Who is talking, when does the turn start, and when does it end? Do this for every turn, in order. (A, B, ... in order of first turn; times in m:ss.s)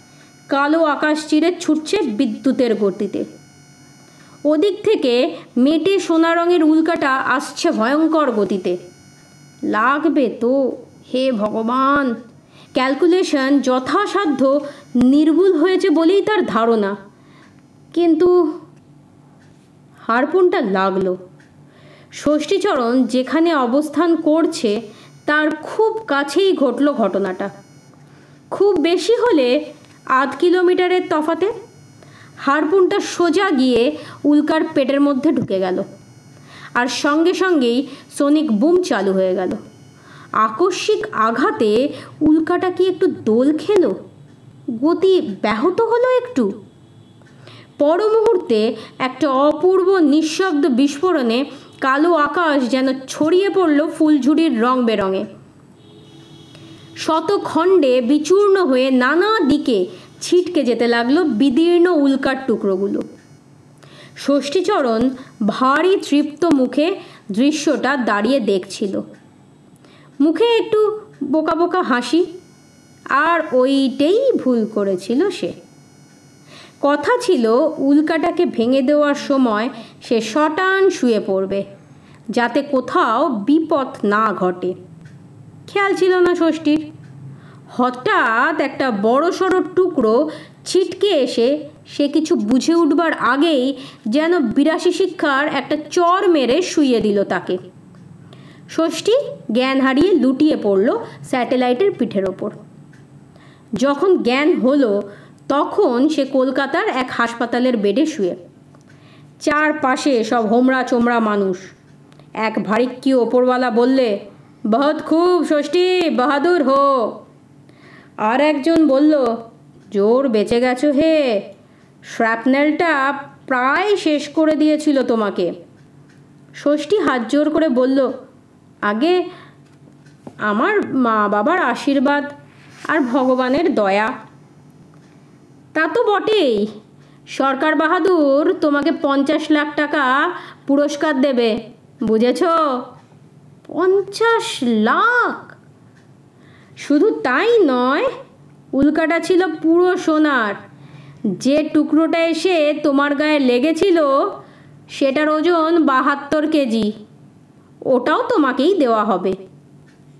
0:00.5-0:03.2 A
0:04.5-0:08.8 A
0:09.7-0:12.1 A
0:12.7-0:16.9 A
0:17.9-0:18.5 A
0:20.0-0:21.2 A
0:22.1-0:27.5 A
0:28.5-0:29.6 A
0:30.1-0:31.5 A
0:32.4-0:35.8 A
0:36.8-0:39.6 A
0:40.4-0:44.0 A
0:44.7-0:46.5 A
0:47.8-0:55.2 A
0:57.0-1:03.0 A
1:04.2-1:09.0 A
1:10.2-1:12.3 A
1:13.2-1:15.5 A
1:16.8-1:21.6 A
1:22.3-1:24.7 A
1:25.7-1:26.8 A
1:27.7-1:37.6 A
1:38.7-1:42.6 A
1:43.8-1:48.4 A
1:49.4-1:51.7 A
1:52.4-1:54.1 A
1:54.7-1:57.1 A
1:58.2-1:59.3 A
1:59.9-2:01.4 A
2:02.1-2:05.5 A
2:06.6-2:08.1 A
2:08.8-2:09.2 A
2:10.5-2:12.3 A
2:12.9-2:14.1 A
2:15.7-2:16.7 A
2:17.3-2:22.8 A
2:23.7-2:25.5 A
2:26.8-2:28.1 A
2:28.7-2:30.6 A
2:31.3-2:34.3 A
2:34.9-2:36.9 A
2:37.9-2:39.4 A